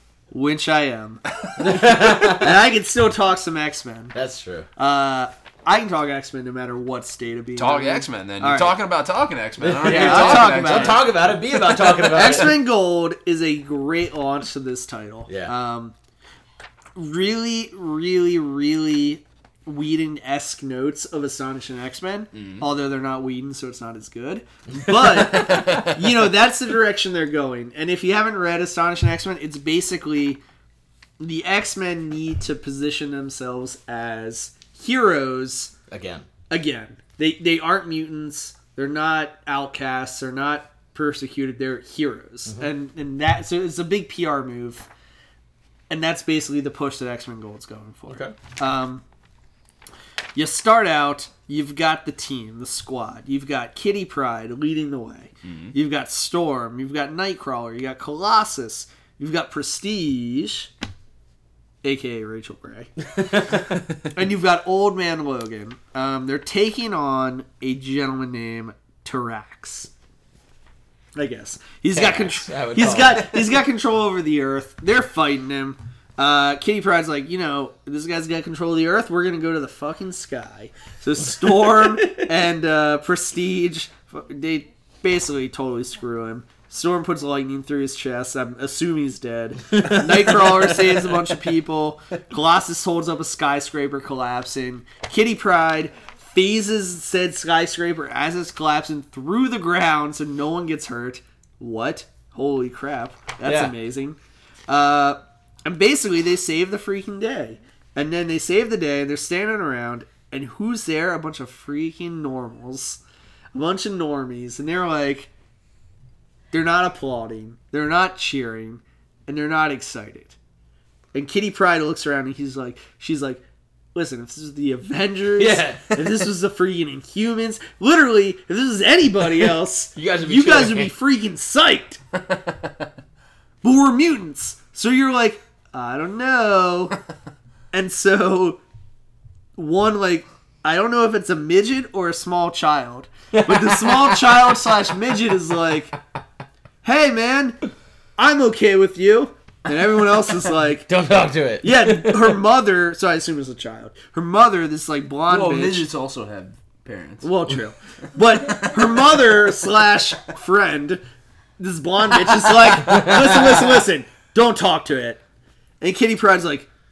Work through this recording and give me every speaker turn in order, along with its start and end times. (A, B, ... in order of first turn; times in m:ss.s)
0:00.3-0:04.1 A
0:01.6-0:02.7 B
0:04.1-0:04.7 B
0:04.8-0:08.8 A
0:07.6-0:11.1 C
0:09.6-0:12.6 B
0:09.8-0:16.0 A
0:15.3-0:15.6 B
0:17.0-0:30.4 A
0:22.3-0:22.7 C
0:25.0-0:26.2 C
0:31.2-0:35.7 A
0:35.9-0:36.3 B
0:36.5-0:44.9 A
0:45.9-0:49.0 A
0:48.1-0:48.4 B
0:50.4-1:00.7 A
0:55.4-0:55.8 C
1:01.8-1:02.9 A
1:03.1-1:03.8 B
1:04.1-1:09.9 A
1:11.2-1:53.0 A
1:11.9-1:13.5 B
1:21.6-1:22.3 B
1:29.7-1:30.9 B
1:43.4-1:43.7 B
1:53.5-1:55.3 A
1:56.5-2:00.4 A
2:01.1-2:03.4 A
2:04.0-2:12.0 A
2:05.4-2:06.1 B
2:10.0-2:10.9 B
2:12.2-2:12.9 C
2:13.6-2:17.0 A
2:17.7-2:18.6 A
2:19.6-2:26.0 A
2:23.3-2:24.4 B
2:26.8-2:27.6 A
2:28.2-2:30.9 A
2:30.9-2:32.4 B
2:31.6-2:35.9 A
2:35.3-2:37.4 C
2:37.2-2:41.0 A
2:38.2-2:39.2 C
2:41.6-2:45.2 A
2:42.8-2:43.8 B
2:45.8-2:46.7 A